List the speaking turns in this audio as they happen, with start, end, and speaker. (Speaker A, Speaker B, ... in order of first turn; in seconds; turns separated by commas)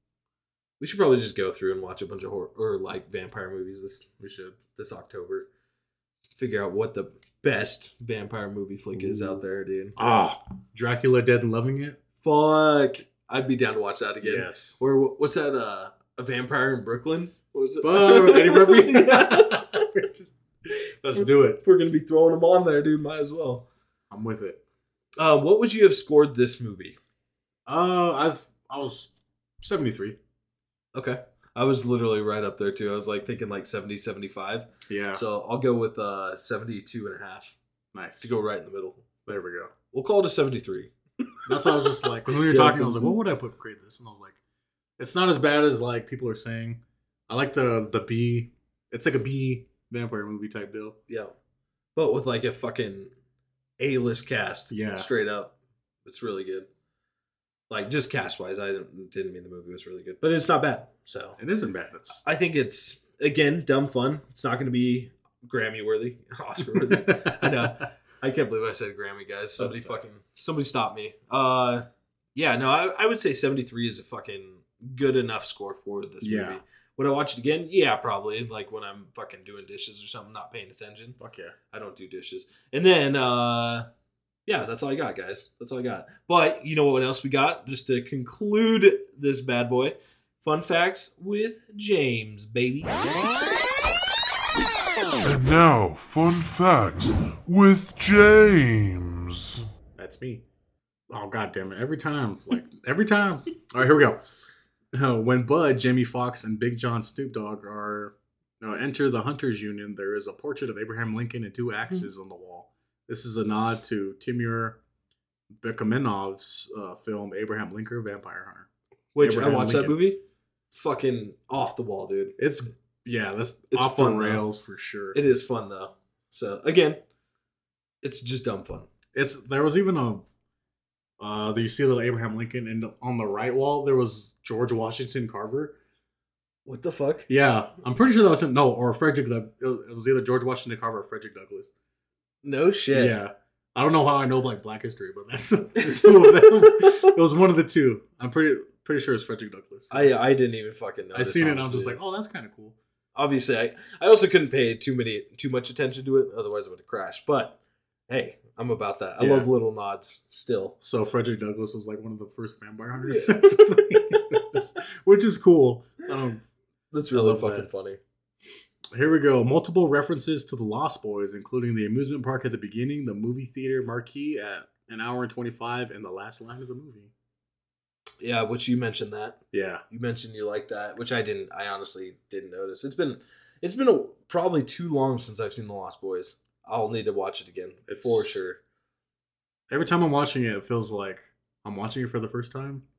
Speaker A: 0.8-5.5, Speaker B: 4.2-4.6, Speaker A: 6.3-10.0, Speaker B: 9.0-9.4, Speaker B: 9.9-12.0, Speaker A: 12.2-20.1, Speaker B: 14.2-14.8, Speaker B: 17.8-20.3, Speaker B: 21.0-21.6, Speaker A: 21.1-23.6, Speaker B: 24.1-24.6, Speaker A: 25.2-27.0, Speaker B: 27.6-30.2, Speaker A: 30.9-37.5, Speaker B: 34.9-35.2, Speaker B: 37.9-38.4, Speaker A: 38.2-39.1, Speaker B: 39.2-39.7, Speaker A: 39.9-40.9, Speaker A: 41.5-43.1, Speaker B: 41.5-44.4, Speaker B: 45.0-51.0, Speaker A: 51.1-51.3, Speaker A: 51.9-53.1, Speaker A: 53.8-56.7, Speaker B: 54.7-55.1, Speaker A: 57.7-61.4, Speaker B: 61.4-62.2, Speaker A: 62.2-81.2, Speaker B: 66.6-67.7, Speaker B: 69.6-70.0, Speaker B: 76.2-76.6, Speaker B: 81.2-81.5, Speaker A: 81.7-83.9, Speaker A: 84.5-93.0, Speaker C: 95.2-99.6, Speaker B: 100.0-100.4, Speaker B: 101.1-104.2, Speaker B: 104.9-114.8, Speaker B: 115.6-120.0, Speaker A: 119.1-122.4, Speaker B: 122.4-125.2, Speaker A: 123.7-124.4, Speaker A: 125.1-127.0, Speaker A: 128.0-128.9, Speaker B: 129.1-130.2, Speaker B: 131.2-135.8, Speaker A: 136.7-137.3, Speaker B: 137.3-141.7, Speaker A: 142.4-143.1, Speaker B: 142.9-150.1, Speaker A: 145.8-147.1, Speaker A: 149.9-152.0, Speaker B: 151.1-152.8, Speaker A: 153.1-160.8, Speaker B: 159.2-159.5, Speaker B: 160.8-166.4, Speaker A: 163.0-164.4, Speaker A: 166.9-168.0, Speaker B: 167.1-167.7, Speaker B: 168.9-177.1, Speaker A: 178.2-179.4, Speaker B: 179.5-179.8, Speaker A: 179.9-188.6, Speaker B: 187.9-188.4, Speaker B: 189.7-192.8